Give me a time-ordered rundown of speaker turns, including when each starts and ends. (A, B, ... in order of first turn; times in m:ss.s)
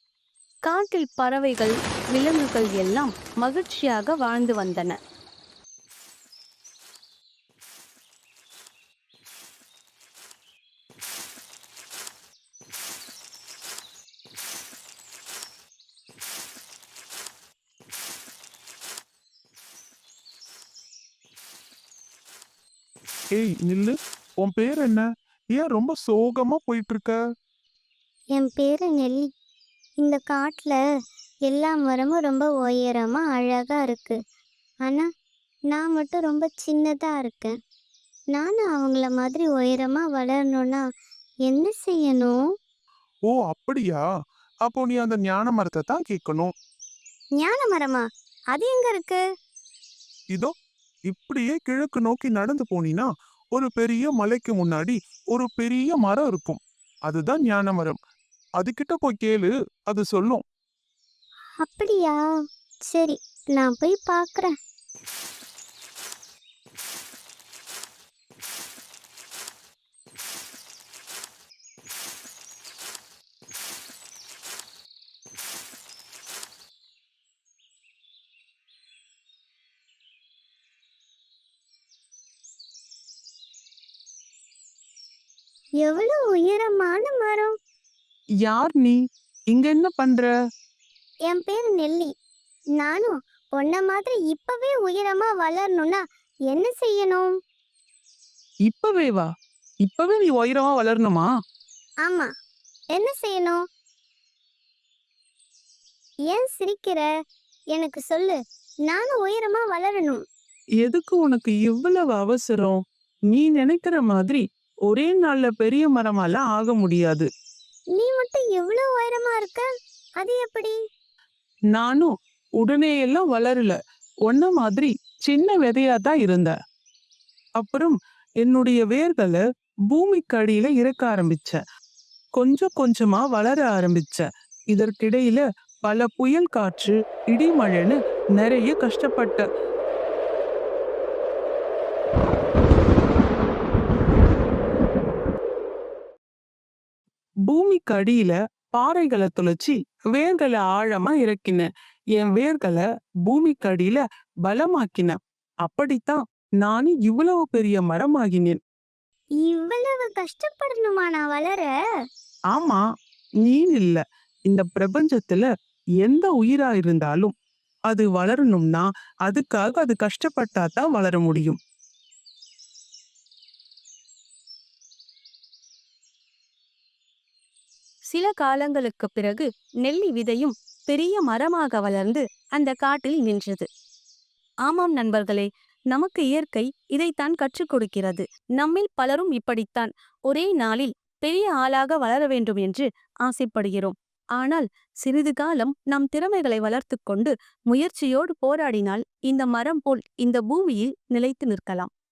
0:00.6-0:05.0 A
0:23.4-0:27.1 B
0:28.4-0:29.2 C
0:30.0-0:30.8 C
0:31.5-0:34.2 C
0:35.7-0:37.5 C
0:38.3-0:40.8 C
0:41.5-0:42.4 C
0:43.3-0:44.0 B
0:44.6-0:46.5 B
0:47.4-0:49.2 C
0:51.1-0:58.0 B
0:58.6-1:00.4 B
1:01.6-1:02.2 C
1:02.9-1:04.5 C
1:25.8-1:27.5 C
1:28.4-1:29.0 D
1:29.5-1:30.3 D
1:31.3-1:32.1 C
1:32.8-1:37.3 C
1:38.7-1:39.3 D
1:39.8-1:41.3 D
1:42.9-1:43.6 C
1:46.3-1:47.0 C
1:47.7-1:48.4 C
1:48.9-1:50.2 C
1:50.8-1:52.8 D
1:53.3-1:57.2 D
1:58.0-1:59.7 C
2:00.2-2:00.7 C
2:01.7-2:03.7 D
2:04.3-2:06.5 D
2:07.6-2:11.6 D
2:12.4-2:19.4 D
2:27.5-2:38.6 D
2:39.4-2:41.7 C
2:42.5-2:42.8 D
2:43.4-2:45.4 D
2:46.0-2:47.3 D
2:47.9-2:51.6 D
2:58.1-3:03.6 A
3:04.6-3:21.9 A